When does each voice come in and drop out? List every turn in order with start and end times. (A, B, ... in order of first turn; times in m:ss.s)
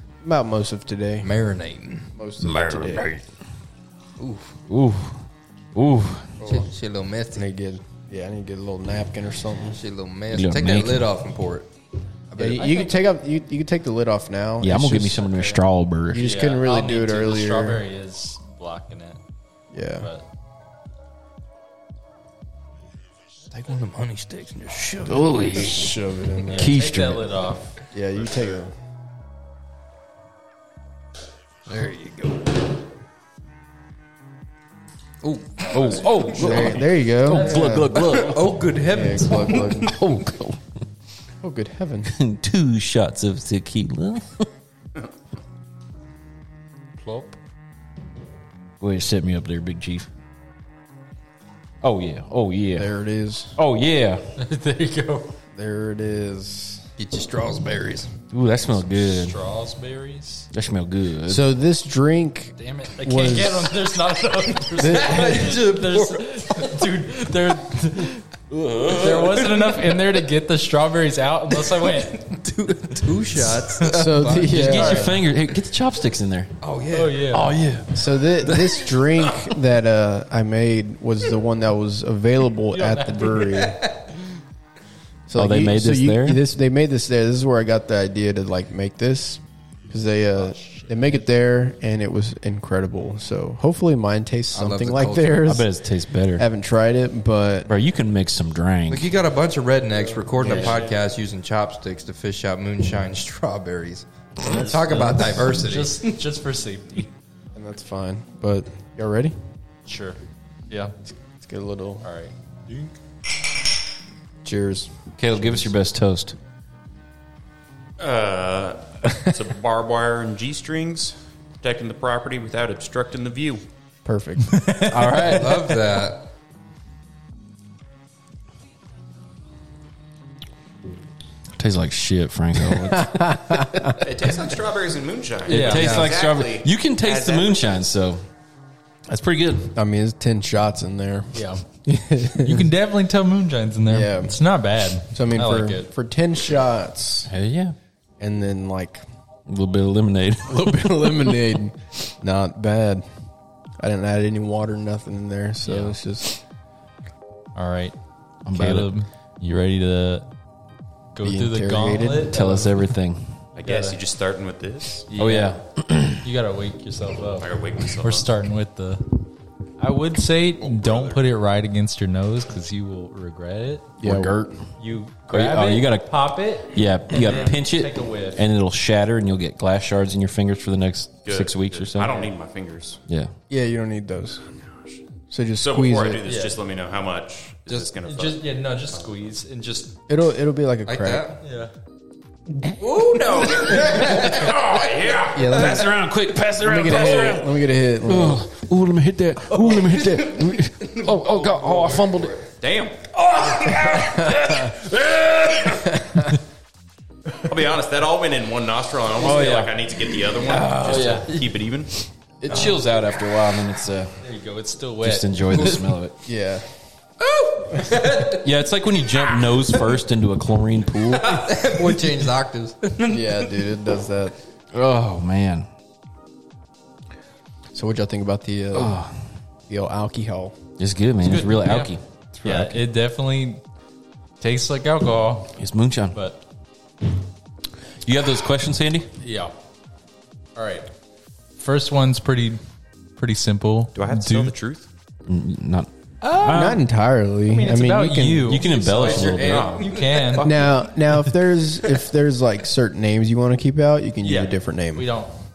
0:00.2-0:01.3 A
0:01.2-0:02.1 B
0:02.1-0:03.1 A
0:02.4-0:03.2 C
0:04.2-0:04.6 B
0:04.7-0:05.2 C
0:05.7-0:06.4 C
0:06.4-0:07.4 B
0:07.4-0:09.8 A
0:09.7-0:11.7 B
0:10.3-0:11.1 C
0:12.3-0:13.0 B
0:12.4-0:15.3 A
0:12.6-0:12.9 D
0:14.6-0:16.3 C
0:16.1-0:17.8 A
0:16.2-0:19.2 D
0:19.7-0:20.1 A
0:20.0-0:20.2 D
0:23.5-0:25.4 B
0:25.0-0:27.3 C
0:25.4-0:26.7 A
0:26.5-0:27.8 D
0:27.9-0:28.7 A
0:31.7-0:32.6 B
0:35.2-0:36.6 B
0:35.7-0:40.6 C
0:36.3-0:38.2 A
0:37.3-0:37.8 D
0:38.1-0:39.8 B
0:38.8-0:40.0 A
0:41.4-0:42.1 A
0:42.1-0:44.5 C
0:47.0-0:47.4 D
0:48.8-0:50.1 C
0:51.8-0:52.9 C
0:52.8-0:53.6 A
0:53.6-0:54.2 C
0:54.4-0:55.4 D
0:55.5-0:56.9 A
0:57.0-0:58.1 B
0:58.3-0:59.4 C
0:58.9-1:00.5 D
1:00.5-1:01.4 C
1:01.3-1:03.8 A
1:02.6-1:08.2 D
1:04.8-1:05.5 A
1:04.8-1:06.8 B
1:08.5-1:09.5 C
1:08.9-1:12.3 D
1:12.0-1:14.8 B
1:13.4-1:13.9 D
1:13.9-1:15.1 A
1:14.4-1:16.6 C
1:14.6-1:15.2 D
1:16.6-1:17.2 B
1:16.9-1:17.6 D
1:17.3-1:18.6 C
1:17.9-1:23.8 A
1:22.7-1:23.6 D
1:23.4-1:24.1 B
1:25.3-1:35.7 A
1:25.3-1:26.4 C
1:30.3-1:31.3 D
1:34.5-1:35.4 B
1:35.4-1:36.5 C
1:36.4-1:37.7 A
1:37.7-1:39.2 C
1:38.9-1:46.2 B
1:40.4-1:40.9 D
1:40.4-1:40.8 A
1:44.4-1:47.1 D
1:47.6-1:49.4 A
1:49.8-1:50.2 D
1:50.7-1:50.9 D
1:51.4-1:52.1 A
1:52.0-1:52.9 D
1:54.4-1:54.9 A
1:55.2-1:56.4 C
1:58.0-2:03.6 E
2:04.0-2:04.6 A
2:04.5-2:05.5 D
2:04.9-2:05.6 C
2:05.2-2:06.2 B
2:11.6-2:14.0 C
2:12.9-2:14.0 A
2:14.0-2:17.9 E
2:15.5-2:18.2 C
2:15.5-2:16.0 D
2:15.8-2:16.2 B
2:19.1-2:19.7 C
2:19.7-2:22.7 A
2:21.3-2:21.6 D
2:22.4-2:25.9 D
2:23.9-2:24.4 A
2:25.1-2:27.3 A
2:27.3-2:27.7 C
2:28.2-2:29.0 A
2:29.5-2:31.4 C
2:30.5-2:33.1 A
2:33.8-2:36.4 A
2:35.6-2:35.9 D
2:37.6-2:37.9 D
2:38.4-2:38.9 C
2:38.5-2:40.3 D
2:41.2-2:42.8 D
2:41.2-2:42.3 A
2:42.3-2:43.3 C
2:43.6-2:45.1 E
2:43.6-2:44.0 D
2:45.1-2:49.2 D
2:45.2-2:46.2 C
2:47.4-2:48.3 E
2:49.8-2:53.9 D
2:50.6-2:51.2 B
2:54.0-2:54.6 A
2:54.0-2:54.4 C
2:54.8-2:58.4 D
2:55.3-3:02.2 C
3:01.2-3:03.0 E
3:03.1-3:03.3 C
3:03.5-3:04.4 A
3:05.3-3:06.2 A
3:05.6-3:09.1 E
3:06.2-3:06.6 D
3:08.0-3:10.0 D
3:10.1-3:11.3 A
3:10.8-3:11.4 B
3:11.4-3:11.7 D
3:12.8-3:15.2 B
3:13.4-3:15.6 E
3:13.8-3:14.4 C
3:15.3-3:15.9 A
3:15.4-3:22.3 C
3:16.6-3:18.4 A
3:19.6-3:22.5 B
3:22.6-3:23.0 E
3:23.1-3:26.2 C
3:23.8-3:24.6 A
3:25.9-3:26.2 A
3:27.4-3:31.9 E
3:29.2-3:31.5 C
3:32.4-3:34.2 C
3:32.5-3:32.8 B
3:34.2-3:35.5 D
3:35.0-3:36.2 C
3:36.2-3:36.6 A
3:37.2-3:38.4 B
3:38.2-3:41.6 C
3:41.2-3:43.6 B
3:43.1-3:44.3 A
3:44.7-3:45.7 C
3:47.7-3:49.0 A
3:48.7-3:49.1 C
3:49.7-3:50.6 A
3:50.8-3:52.8 C
3:51.2-3:53.6 D
3:54.4-3:55.6 D
3:55.6-3:56.2 C
3:56.1-3:56.4 D
3:58.0-3:59.1 C
3:59.2-3:59.5 D
4:00.6-4:00.9 D
4:01.6-4:02.6 D
4:03.2-4:04.6 D
4:03.9-4:04.9 E
4:05.3-4:06.8 C
4:06.2-4:06.7 D
4:06.5-4:08.6 A
4:07.5-4:10.5 D
4:08.4-4:09.8 C
4:08.6-4:10.7 B
4:09.4-4:10.6 E
4:10.4-4:15.1 A
4:14.2-4:15.4 D